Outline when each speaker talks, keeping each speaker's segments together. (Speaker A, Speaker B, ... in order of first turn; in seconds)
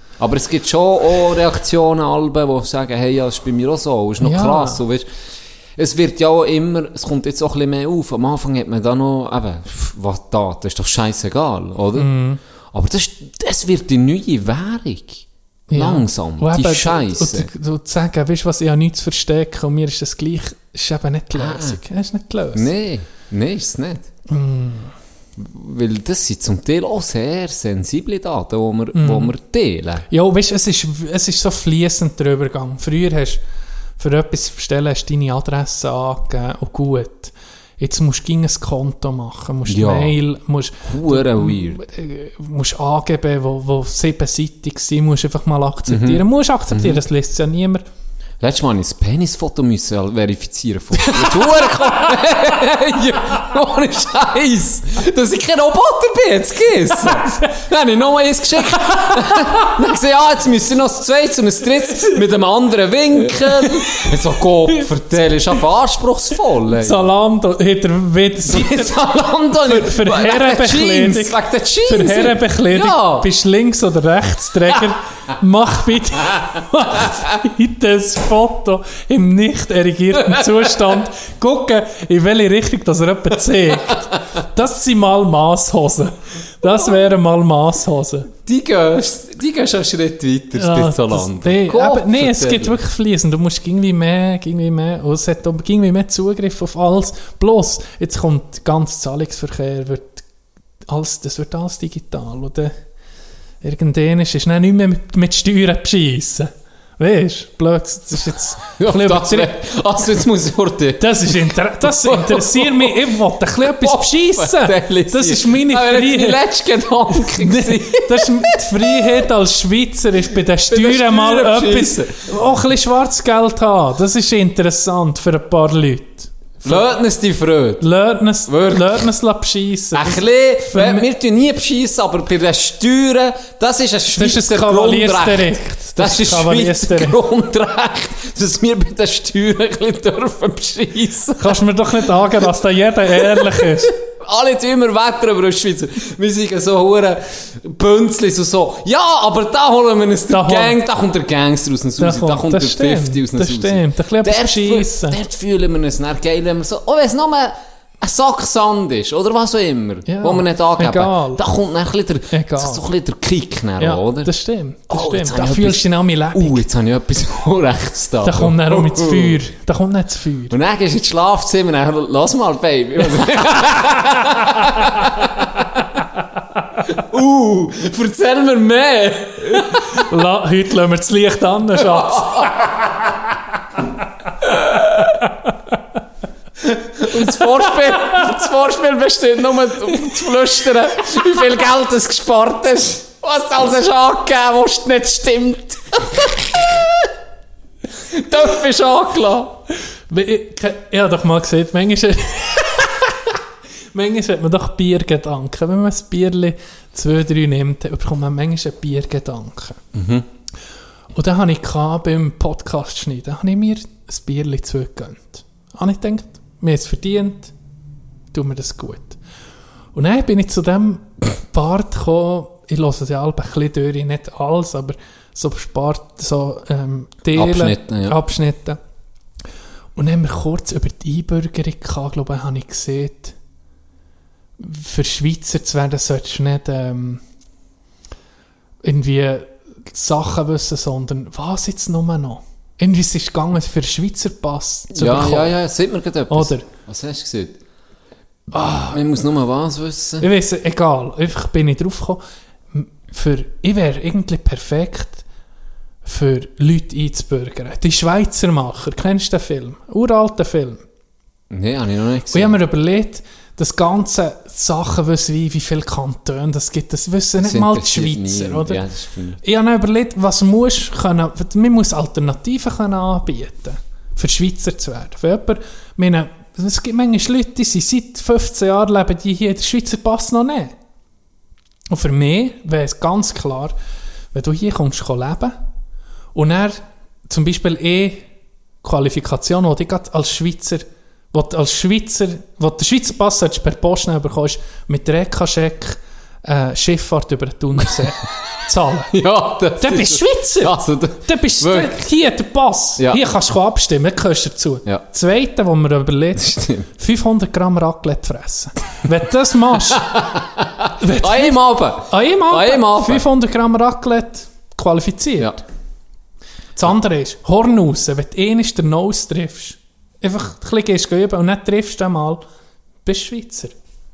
Speaker A: 0.2-5.1, 5.8-12.1, 12.7-15.2, 15.8-17.5, 21.3-21.8, 22.6-24.1, 25.4-30.1, 39.7-40.1, 40.9-41.8, 45.9-47.0, 48.4-67.1, 68.5-73.3, 80.2-80.8, 88.5-92.8, 108.8-119.2, 120.7-122.3, 126.6-127.8, 128.5-129.1, 129.9-141.6, 143.2-164.3, 164.9-169.4, 170.5-175.8, 176.9-180.1, 181.8-183.1, 184.4-185.1, 186.7-197.1, 198.1-199.6, 209.9-210.2, 227.3-228.2, 244.9-247.6, 248.9-250.3, 261.5-262.6, 267.4-269.4, 299.1-302.0, 306.4-306.9, 309.9-313.2
Speaker B: 4.2-4.8, 11.9-12.4, 15.7-22.7, 24.3-24.9, 28.9-29.3, 30.1-33.4, 34.0-47.9, 51.0-52.1, 58.8-59.7, 63.6-64.1, 66.8-69.0, 69.6-88.3, 90.6-100.2, 100.9-102.7, 103.6-109.5, 111.0-116.4, 117.1-126.8, 127.8-131.1, 134.1-137.2, 141.4-143.9, 150.3-150.8, 152.0-155.2, 160.1-161.4, 162.3-162.8, 163.8-166.6, 168.2-170.5, 174.0-174.8, 179.9-182.7, 200.1-203.2, 203.9-209.8, 211.2-217.5, 218.3-219.2, 219.9-228.8, 229.9-233.3, 234.6-237.2, 238.8-245.5, 246.3-246.7, 248.5-249.0, 250.2-252.2, 252.7-255.2, 256.1-260.8, 262.3-268.8, 269.4-280.8, 281.9-283.8, 284.3-285.6, 286.4-288.3, 288.8-299.1, 299.8-310.1, 311.0-311.6, 312.1-315.6, 316.8-322.4, 323.1-323.8